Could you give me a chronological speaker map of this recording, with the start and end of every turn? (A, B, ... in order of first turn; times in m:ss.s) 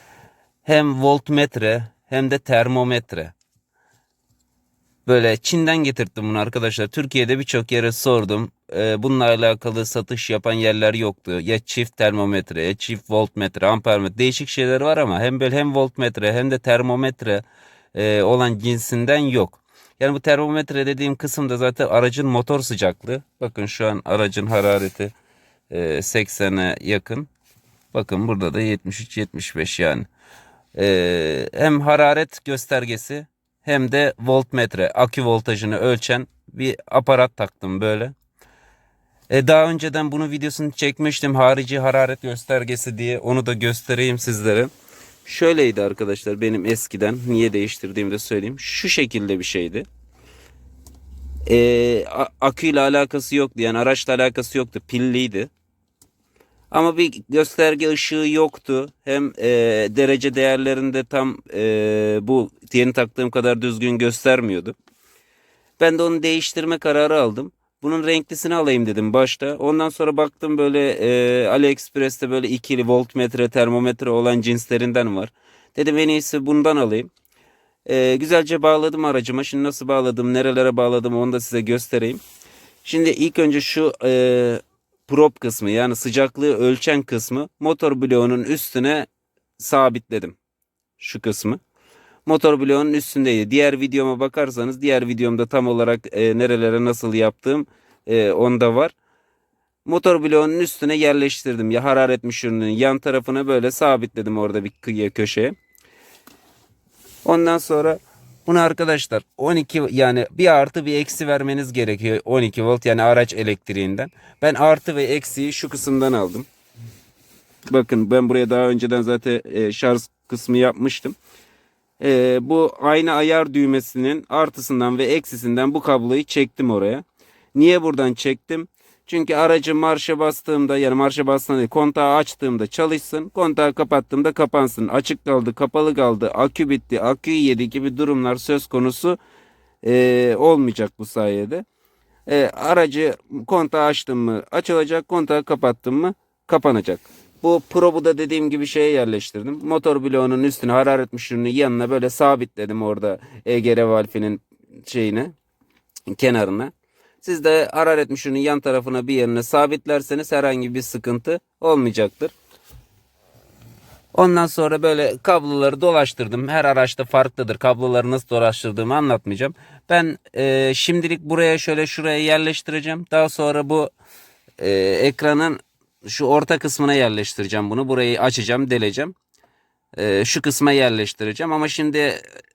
0:00.6-0:03.3 A
0:05.0-0:17.4 A
0:17.9-0:25.1 A
0:25.7-0:27.3 A
0:27.9-0:30.1 A
0:30.7-0:38.1 A
0:39.3-0:44.7 A
0:45.2-0:49.8 A
0:51.5-0:55.5 A
0:56.7-1:04.7 A
1:05.8-1:17.1 A
1:17.8-1:22.2 A
1:22.8-1:30.4 A
1:31.0-1:31.6 A
1:32.2-1:38.9 A
1:39.8-1:45.5 A
1:47.2-1:56.5 A
1:57.7-2:01.2 A
2:02.0-2:07.0 A
2:07.5-2:19.2 A
2:19.8-2:21.6 A
2:22.3-2:35.3 A
2:36.1-2:42.3 A
2:44.1-2:53.9 A
2:54.6-2:59.1 A
3:00.0-3:02.2 A